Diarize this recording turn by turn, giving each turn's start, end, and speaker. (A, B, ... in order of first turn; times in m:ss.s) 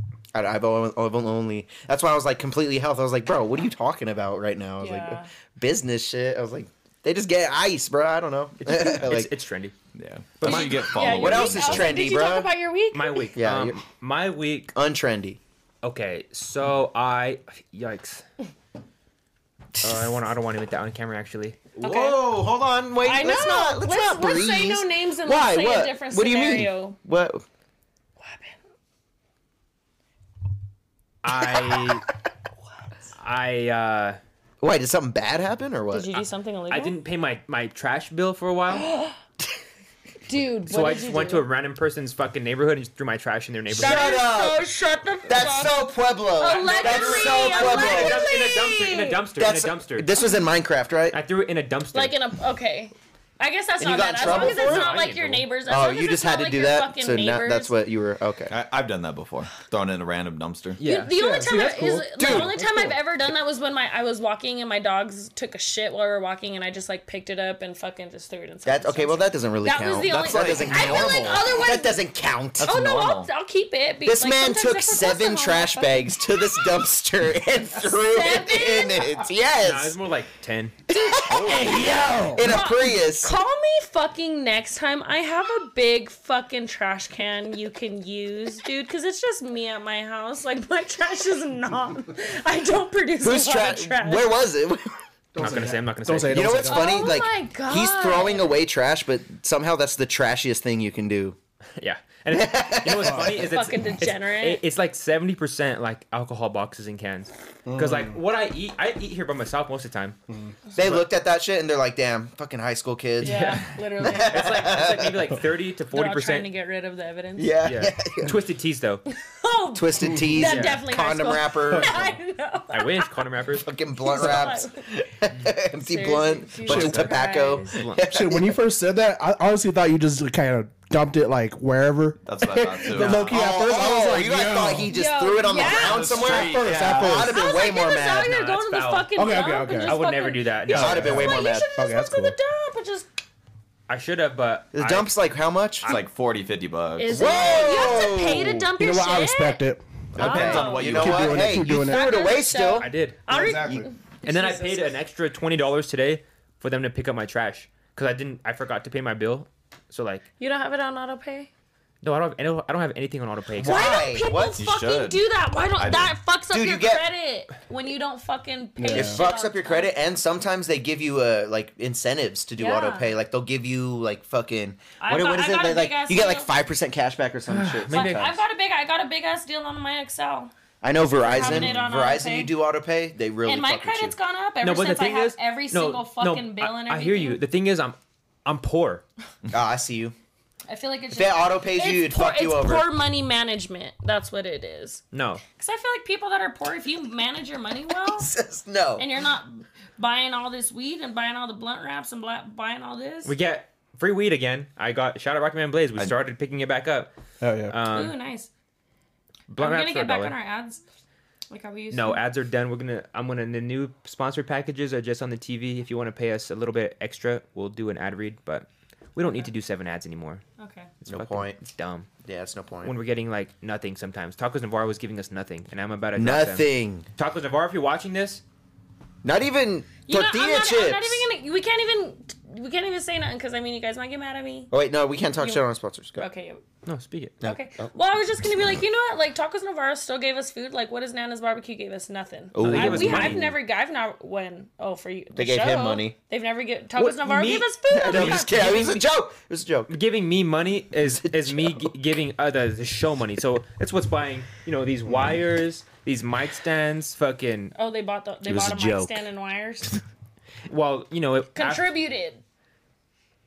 0:00.3-0:09.3 A
0:04.8-0:05.3 B
0:08.6-0:09.7 C
0:10.0-0:12.0 D
0:10.4-0:10.7 C
0:10.4-0:13.3 B
0:10.9-0:12.5 A
0:12.9-0:14.7 C
0:13.3-0:13.8 A
0:14.7-0:15.4 A
0:15.8-0:18.2 C
0:19.8-0:20.1 A
0:19.8-0:21.7 C
0:21.8-0:27.4 A
0:21.8-0:22.2 B
0:23.0-0:27.0 B
0:28.2-0:28.5 B
0:31.2-0:32.0 C
0:31.5-0:32.0 A
0:33.2-0:34.2 C
0:34.6-0:36.1 A
0:35.9-0:37.0 B
0:36.7-0:38.8 C
0:38.7-0:39.2 B
0:40.3-0:41.5 B
0:40.7-0:44.1 C
0:43.7-0:44.7 A
0:43.8-0:45.8 B
0:45.2-0:48.3 A
0:46.4-0:49.2 B
0:46.4-0:50.1 C
0:49.4-0:51.2 A
0:51.1-0:52.1 C
0:51.9-0:57.7 B
0:53.8-0:54.9 A
0:54.2-0:55.4 C
0:55.7-0:58.5 A
0:58.5-1:00.8 D
1:00.8-1:01.2 C
1:00.8-1:12.0 B
1:01.1-1:02.9 E
1:02.2-1:02.6 A
1:08.6-1:12.8 A
1:10.1-1:11.3 D
1:12.6-1:13.3 D
1:12.6-1:16.6 B
1:14.0-1:20.0 A
1:17.7-1:19.2 B
1:19.6-1:20.8 C
1:20.9-1:23.3 A
1:20.9-1:34.3 B
1:21.3-1:21.9 D
1:21.4-1:22.4 E
1:33.2-1:34.9 A
1:35.3-1:37.1 E
1:35.4-1:36.7 C
1:36.3-1:41.4 A
1:36.7-1:38.6 B
1:41.8-1:50.2 C
1:42.3-1:43.5 A
1:43.0-1:43.3 E
1:43.5-1:44.6 B
1:47.7-1:48.2 E
1:50.3-1:50.5 E
1:50.7-1:55.3 A
1:53.2-1:54.7 B
1:53.2-1:56.5 C
1:55.9-1:57.6 B
1:57.4-1:58.3 A
1:57.6-1:59.0 C
1:59.1-2:03.1 B
1:59.7-2:02.1 A
2:00.0-2:00.3 E
2:00.4-2:00.8 C
2:01.7-2:02.0 E
2:02.7-2:03.7 C
2:03.6-2:08.6 A
2:04.0-2:04.9 B
2:05.8-2:07.8 B
2:06.7-2:07.1 E
2:06.7-2:07.0 C
2:07.6-2:08.0 C
2:08.1-2:14.9 E
2:12.2-2:13.4 D
2:13.0-2:18.3 A
2:14.9-2:16.6 B
2:15.5-2:17.3 D
2:16.1-2:17.3 E
2:17.3-2:23.1 B
2:18.2-2:19.1 C
2:19.2-2:20.0 E
2:19.9-2:21.1 C
2:20.7-2:21.7 A
2:20.7-2:22.4 E
2:23.9-2:25.1 C
2:24.7-2:25.9 A
2:25.8-2:27.9 D
2:27.0-2:29.6 B
2:27.1-2:28.7 A
2:28.8-2:32.0 E
2:30.1-2:32.9 A
2:30.2-2:35.0 B
2:30.2-2:31.4 D
2:32.8-2:33.2 C
2:33.3-2:33.9 E
2:34.2-2:40.2 C
2:40.4-2:41.5 B
2:42.0-2:43.8 C
2:43.6-2:44.6 A
2:43.6-2:49.9 B
2:44.6-2:45.2 D
2:45.8-2:46.2 D
2:46.5-2:47.0 A
2:48.8-2:49.2 E
2:48.9-2:58.3 A
2:52.6-2:53.1 B
2:55.0-2:56.5 B
2:57.5-2:58.4 C
2:57.9-3:00.5 B
3:00.8-3:04.1 A
3:01.2-3:02.5 B
3:03.4-3:07.4 B
3:04.6-3:09.0 C
3:09.5-3:10.1 A
3:10.7-3:18.3 B
3:11.1-3:12.9 A
3:15.1-3:15.4 C
3:18.2-3:19.0 A
3:19.0-3:23.3 B
3:23.2-3:27.1 C
3:27.4-3:27.8 E
3:27.7-3:28.1 C
3:27.9-3:28.5 B
3:29.5-3:30.4 C
3:29.6-3:30.8 B
3:31.5-3:32.2 B
3:31.9-3:40.4 C
3:40.6-3:40.9 B
3:41.0-3:42.1 C
3:41.1-3:41.6 A
3:42.2-3:42.9 A
3:42.8-3:48.4 C
3:46.2-3:47.1 A
3:49.2-3:51.2 A
3:50.1-3:54.7 B
3:54.7-3:56.3 A
3:56.2-3:56.6 B
3:56.8-3:57.4 C
3:57.4-3:57.9 A
3:57.4-4:08.9 B
4:02.5-4:03.5 A
4:02.6-4:03.5 C
4:05.4-4:06.1 A
4:07.0-4:09.0 C
4:07.9-4:09.9 A
4:09.9-4:17.7 C
4:11.0-4:11.8 A
4:17.7-4:20.0 B
4:18.4-4:19.2 A
4:20.7-4:21.9 C
4:21.5-4:22.4 B